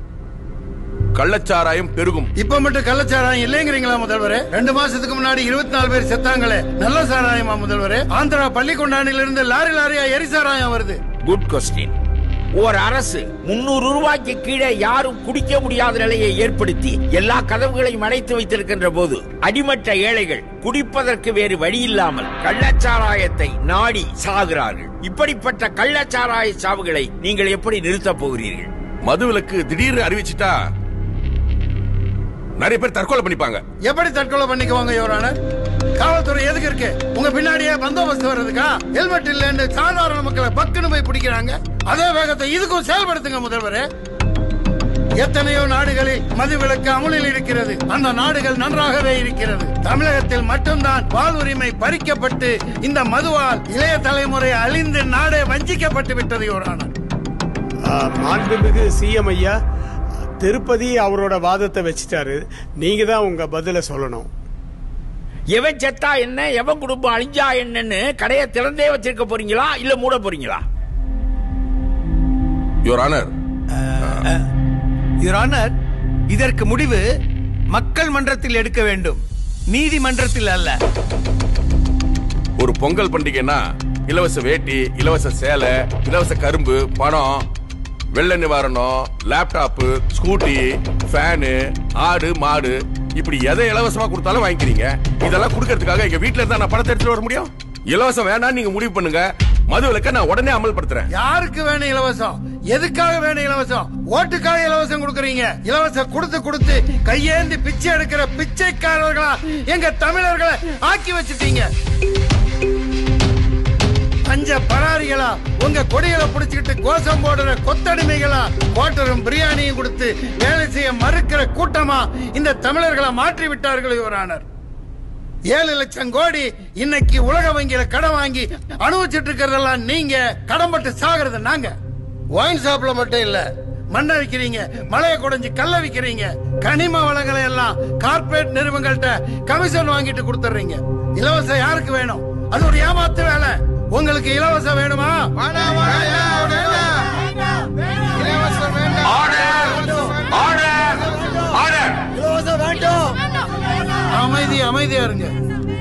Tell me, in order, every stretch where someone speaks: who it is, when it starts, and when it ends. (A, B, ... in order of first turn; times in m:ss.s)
0:01.1-0:02.3 A
0:02.4-0:11.0 B
0:11.2-0:11.9 C
0:12.6-0:28.7 C
0:29.0-0:30.6 A
0:32.6-0:33.6 A
0:33.8-0:35.3 B
0:36.0-0:43.8 B
0:45.2-0:56.9 B
0:57.9-0:59.5 D
1:00.4-1:04.3 D
1:05.5-1:10.6 C
1:12.8-1:13.3 A
1:13.8-1:14.4 E
1:15.2-1:15.7 E
1:16.3-1:17.0 E
1:17.7-1:20.8 E
1:22.6-1:27.4 A
1:28.1-1:41.1 A
1:41.1-1:51.7 B
1:54.3-2:04.4 B
2:05.5-2:11.7 B
2:12.3-2:25.3 B
2:28.9-2:33.2 C
2:34.1-2:35.3 B